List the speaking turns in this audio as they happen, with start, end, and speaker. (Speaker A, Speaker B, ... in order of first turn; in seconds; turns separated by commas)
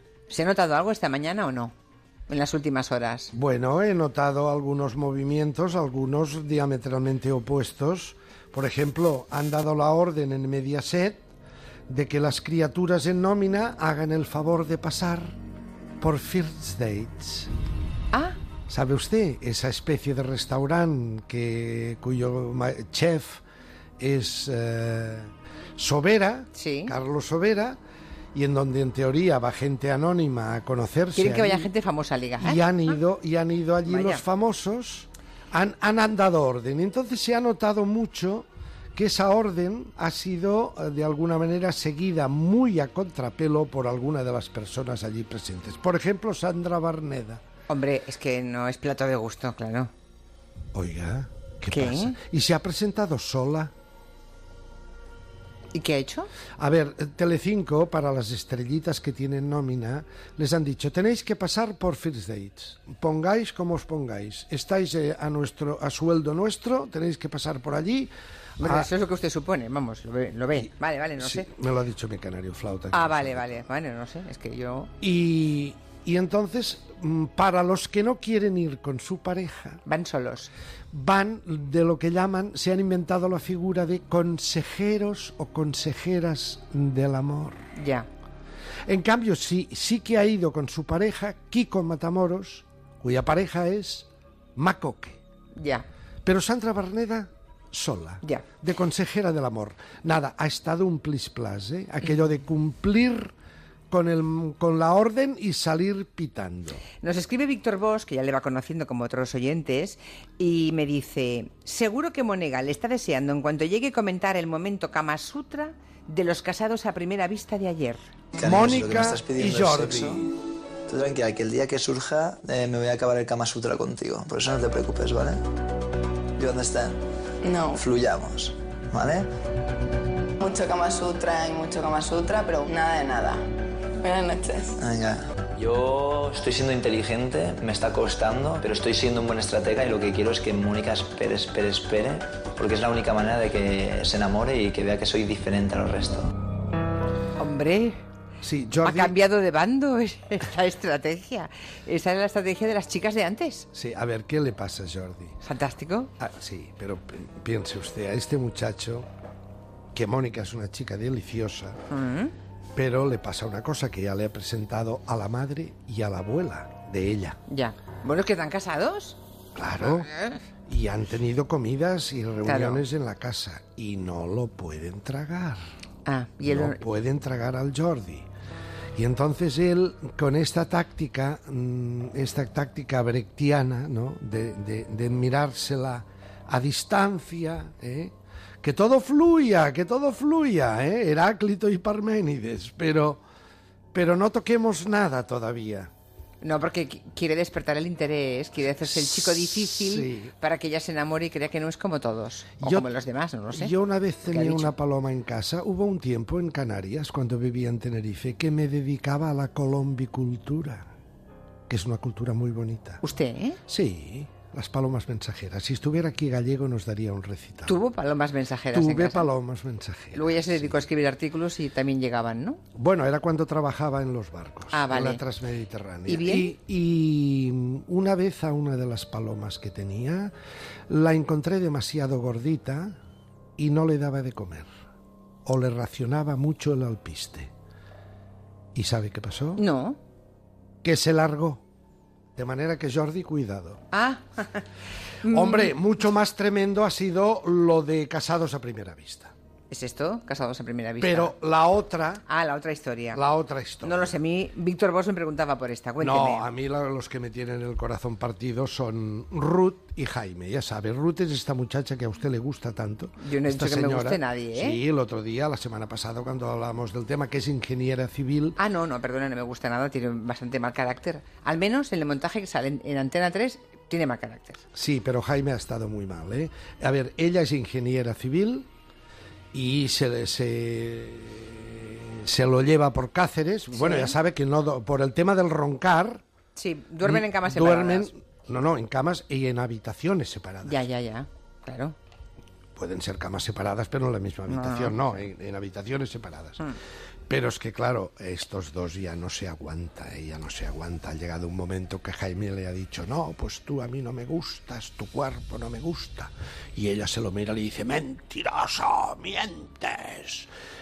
Speaker A: 0.3-1.7, Speaker A: 2.3-3.3, Speaker B: 3.3-11.3, Speaker B: 11.9-15.3, Speaker B: 16.0-17.5, Speaker A: 18.1-18.4, Speaker B: 18.7-23.4, Speaker B: 24.0-27.8, Speaker A: 26.6-26.9, Speaker B: 28.3-31.7, Speaker A: 31.1-33.0, Speaker B: 32.4-47.4, Speaker A: 33.9-34.2, Speaker A: 47.7-49.9, Speaker B: 50.7-53.7, Speaker A: 51.7-52.2, Speaker A: 55.7-56.3, Speaker B: 56.6-68.9, Speaker A: 68.6-71.5, Speaker B: 70.6-73.6, Speaker A: 72.9-74.9, Speaker B: 75.0-79.8, Speaker A: 79.9-80.5, Speaker B: 80.9-87.7, Speaker A: 87.8-88.1, Speaker B: 88.9-95.2, Speaker A: 95.6-95.8, Speaker B: 96.2-103.3, Speaker B: 103.9-106.8, Speaker A: 107.0-118.0, Speaker C: 118.4-120.3, Speaker B: 118.4-120.3, Speaker C: 120.9-125.4, Speaker C: 126.4-127.0, Speaker D: 127.4-127.8, Speaker C: 127.7-129.3, Speaker D: 130.4-133.4, Speaker D: 134.0-134.8, Speaker C: 134.8-146.3, Speaker A: 147.4-148.0, Speaker B: 148.4-149.2, Speaker A: 148.8-153.7, Speaker B: 153.7-155.4, Speaker A: 155.4-156.1, Speaker B: 156.2-159.1, Speaker B: 159.9-161.8, Speaker A: 161.9-162.3, Speaker B: 162.8-167.4, Speaker A: 167.5-169.2, Speaker B: 169.6-170.1, Speaker A: 170.0-170.4, Speaker B: 170.7-175.6, Speaker A: 172.5-172.8, Speaker A: 176.1-176.8, Speaker B: 176.4-178.3, Speaker B: 178.9-193.2, Speaker B: 193.9-195.9, Speaker A: 196.4-203.7, Speaker B: 198.8-200.3, Speaker B: 202.6-202.9, Speaker B: 203.5-210.9, Speaker A: 204.3-204.7, Speaker B: 211.7-213.0, Speaker A: 213.0-213.6, Speaker B: 213.7-217.8, Speaker A: 217.7-219.3, Speaker B: 218.7-220.8, Speaker A: 220.1-222.6, Speaker B: 222.8-230.3, Speaker A: 224.7-225.2, Speaker A: 226.1-226.5, Speaker B: 230.9-233.0, Speaker B: 233.6-234.7, Speaker B: 235.4-237.5, Speaker B: 238.8-239.6, Speaker A: 239.6-240.0, Speaker B: 240.8-241.6, Speaker B: 242.4-243.8, Speaker A: 243.9-244.7, Speaker A: 245.2-245.7, Speaker B: 245.3-249.3, Speaker A: 249.7-251.3, Speaker B: 251.0-252.2, Speaker A: 252.3-253.2, Speaker B: 253.1-254.2, Speaker A: 253.8-256.5, Speaker B: 256.0-268.6, Speaker A: 263.2-264.8, Speaker A: 268.6-274.6, Speaker B: 274.7-278.7, Speaker B: 279.5-286.2, Speaker A: 283.7-284.2, Speaker A: 286.6-288.1, Speaker B: 287.0-290.9, Speaker A: 290.6-292.0, Speaker B: 292.8-296.6, Speaker A: 294.5-295.2, Speaker B: 297.3-310.5